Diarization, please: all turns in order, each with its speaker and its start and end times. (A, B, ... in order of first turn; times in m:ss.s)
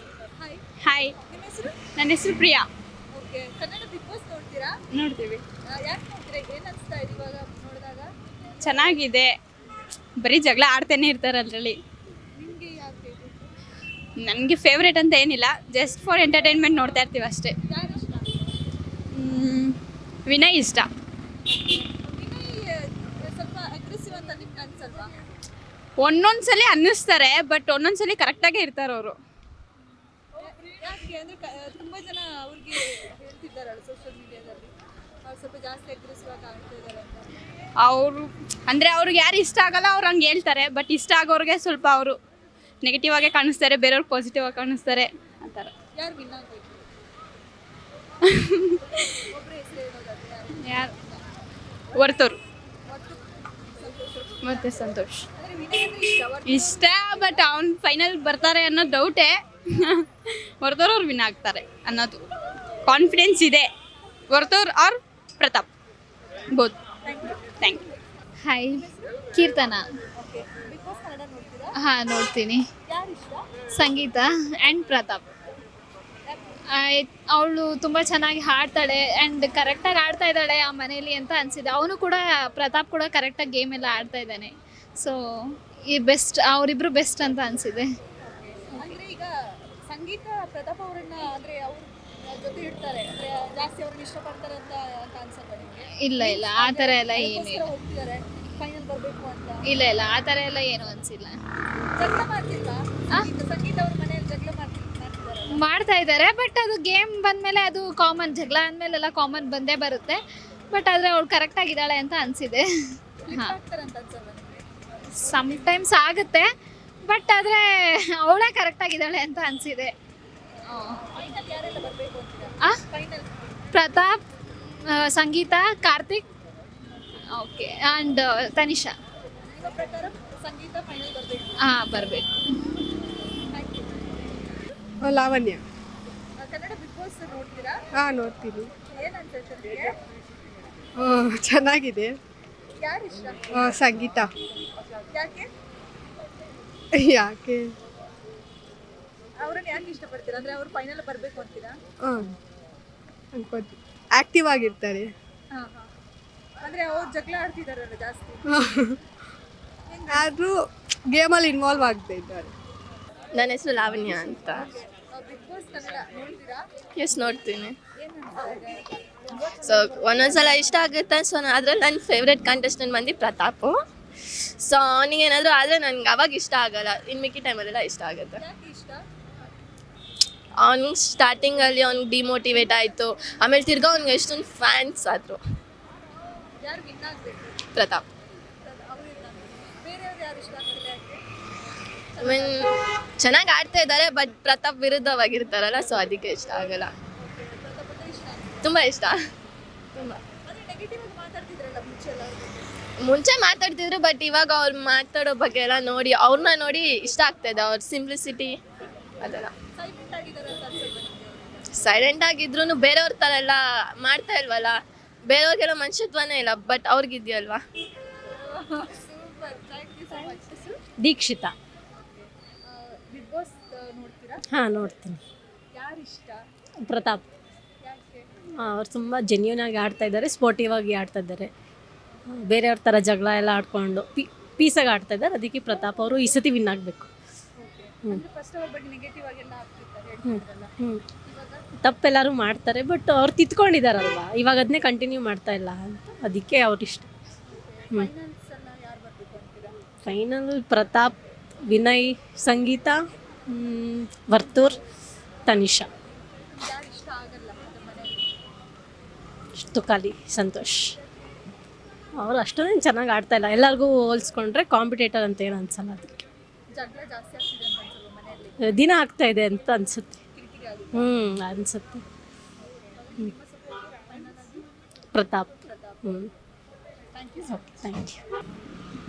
0:00.8-0:01.1 A
0:01.2-0:01.8 B
0:02.0-0:02.7 A
0:03.1-0:04.7 B
0:04.9-0:05.4 A
0:05.7-0:09.0 B
0:08.6-0:09.4 A
0:10.2-0:11.8 A
0:12.3-0:13.4 B
0:14.2-0:17.5 A
0:17.7-0:18.5 B
0:19.1-0:20.9 A
0:21.4-0:25.1 B
0:26.0-0:29.2 A
0:30.4-0:34.7 B
0:35.2-0:37.3 B
0:37.8-0:42.2 A
0:42.8-0:45.7 A
0:45.9-0:46.8 B
0:48.2-0:48.8 A
0:49.2-0:51.2 B
0:50.6-0:50.9 A
0:51.9-0:52.4 A
0:52.9-0:54.7 B
0:54.4-0:55.2 A
0:55.3-0:57.4 B
0:56.4-1:00.0 A
1:00.6-1:02.2 A
1:02.8-1:03.7 A
1:04.3-1:05.7 A
1:07.0-1:07.6 B
1:08.4-1:08.8 C
1:08.7-1:09.2 B
1:09.3-1:09.8 C
1:10.2-1:11.7 B
1:11.8-1:12.6 C
1:12.9-1:13.6 B
1:13.8-1:15.2 C
1:16.3-1:16.6 B
1:16.7-1:27.9 C
1:28.3-1:29.3 B
1:29.9-1:39.6 B
1:36.0-1:37.7 C
1:39.6-1:41.3 C
1:41.9-1:45.6 B
1:45.5-1:50.2 C
1:50.7-1:52.6 C
1:53.2-1:54.6 B
1:53.3-1:53.6 C
1:55.2-1:56.5 C
1:55.2-1:55.7 B
1:57.0-1:59.9 C
2:00.7-2:01.0 C
2:00.8-2:03.3 B
2:03.7-2:04.2 C
2:04.9-2:06.2 C
2:07.4-2:08.9 C
2:09.5-2:11.5 B
2:11.6-2:12.2 C
2:13.4-2:14.6 B
2:15.0-2:15.6 D
2:16.4-2:17.8 B
2:17.9-2:18.7 D
2:18.9-2:20.0 B
2:21.0-2:22.2 D
2:22.8-2:23.6 B
2:23.5-2:24.3 D
2:25.1-2:25.5 B
2:26.9-2:27.7 D
2:29.4-2:31.8 B
2:32.0-2:32.3 D
2:33.3-2:35.1 D
2:35.5-2:35.9 B
2:36.6-2:38.5 B
2:38.5-2:39.0 D
2:39.9-2:40.3 B
2:40.1-2:40.5 D
2:41.1-2:42.5 D
2:43.3-2:44.6 E
2:45.1-2:46.6 B
2:47.0-2:47.8 E
2:48.0-2:50.8 B
2:49.6-2:53.8 E
2:54.6-2:58.4 E
2:58.4-2:59.0 B
3:00.6-3:05.4 E
3:06.6-3:07.6 B
3:07.7-3:08.0 E
3:08.6-3:11.2 B
3:12.1-3:12.8 B
3:12.2-3:16.9 E
3:17.2-3:18.9 B
3:18.6-3:19.2 E
3:20.2-3:22.7 B
3:23.0-3:28.6 E
3:29.2-3:29.5 E
3:29.7-3:31.6 B
3:31.7-3:37.6 E
3:38.3-3:40.8 B
3:41.0-3:41.5 F
3:42.0-3:44.4 B
3:44.5-3:45.2 F
3:45.7-3:46.4 B
3:46.8-3:47.2 F
3:47.8-3:48.3 B
3:48.6-3:51.5 F
3:52.3-3:57.1 F
3:55.7-3:56.0 B
3:57.6-4:00.7 B
4:00.2-4:01.0 F
4:01.2-4:01.6 B
4:01.8-4:07.1 F
4:07.5-4:09.7 B
4:10.0-4:11.1 F
4:11.7-4:14.8 F
4:15.5-4:15.9 F
4:16.5-4:18.3 B
4:19.6-4:21.0 F
4:22.2-4:26.1 F
4:26.7-4:28.6 B
4:28.6-4:30.2 F
4:30.3-4:31.1 B
4:30.9-4:32.0 F
4:32.9-4:34.7 B
4:35.1-4:36.3 F
4:35.3-4:36.3 B
4:37.1-4:37.8 B
4:37.5-4:38.2 F